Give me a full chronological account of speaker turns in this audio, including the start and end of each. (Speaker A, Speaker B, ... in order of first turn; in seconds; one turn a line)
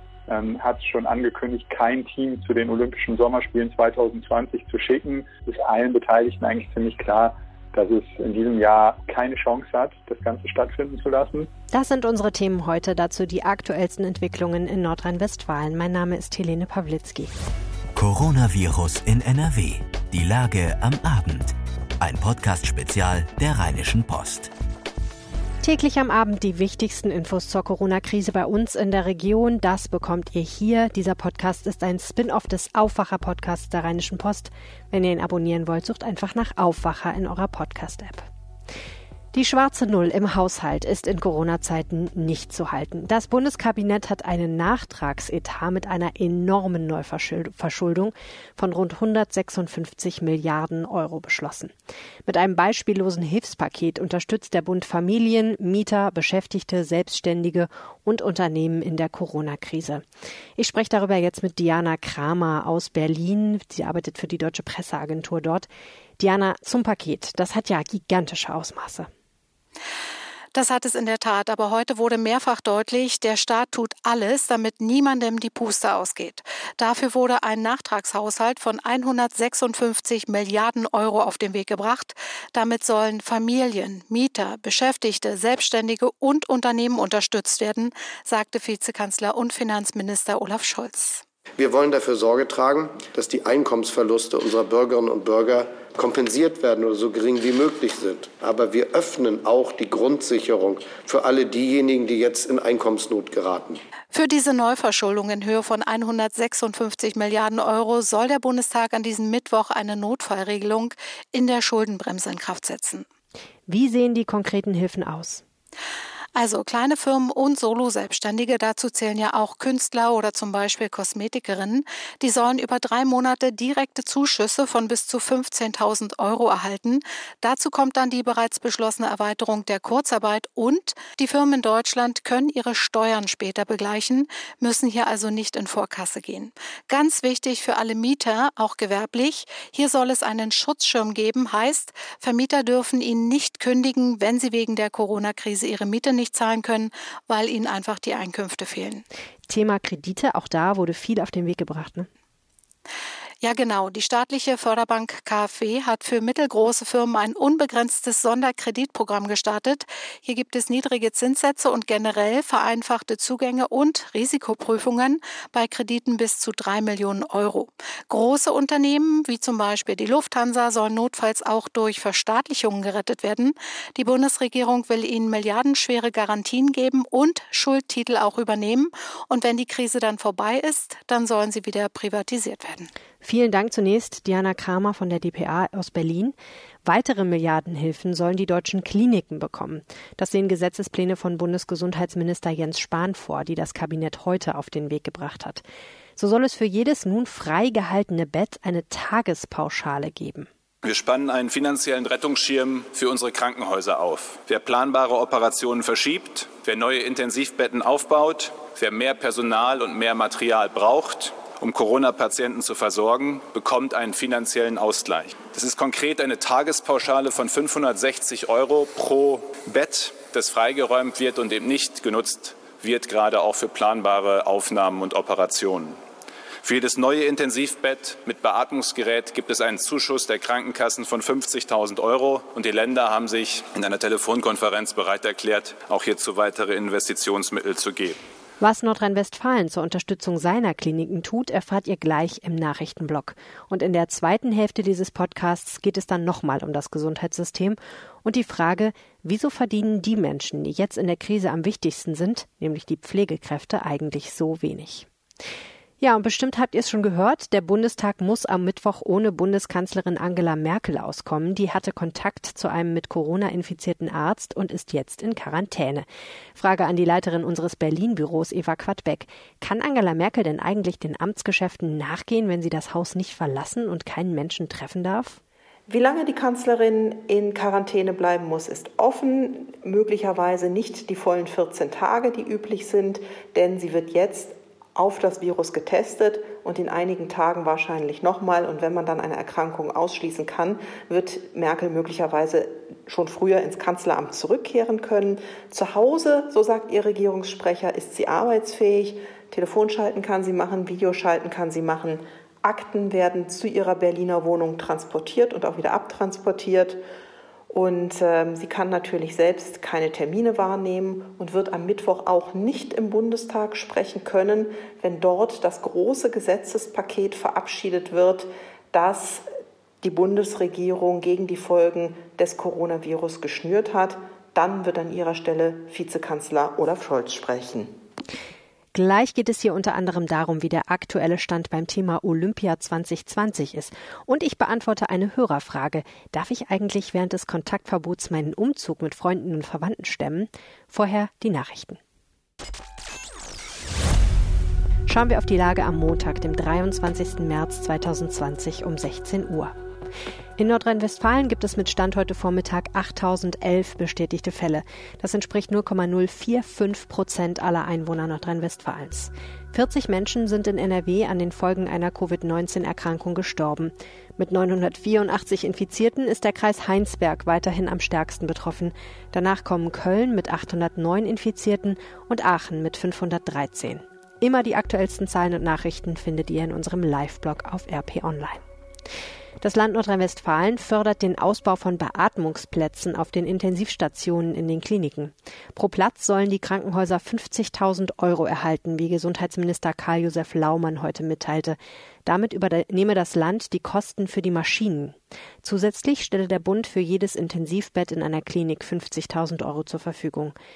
Speaker A: 0.3-11.5
Speaker B: 11.7-17.3
Speaker C: 17.9-24.5
Speaker B: 25.6-38.3
Speaker B: 39.3-51.7
Speaker B: 52.2-60.0
Speaker B: 60.6-65.7
Speaker B: 66.2-69.1
Speaker D: 70.5-91.2
Speaker E: 91.6-103.8
Speaker D: 104.1-113.0
Speaker B: 113.7-115.4
Speaker D: 116.3-149.0
Speaker B: 149.5-152.1
Speaker D: 153.4-182.9
Speaker B: 183.2-195.6
Speaker B: 196.2-200.5
Speaker F: 200.8-226.0
Speaker F: 226.6-238.2
Speaker B: 238.6-255.1
Speaker B: 256.0-275.4
Speaker G: 275.9-307.0
Speaker G: 307.7-319.5
Speaker G: 320.0-327.9
Speaker B: 328.9-342.0
Speaker B: 345.1-349.7
Speaker B: 350.6-378.6
Speaker B: 379.6-400.5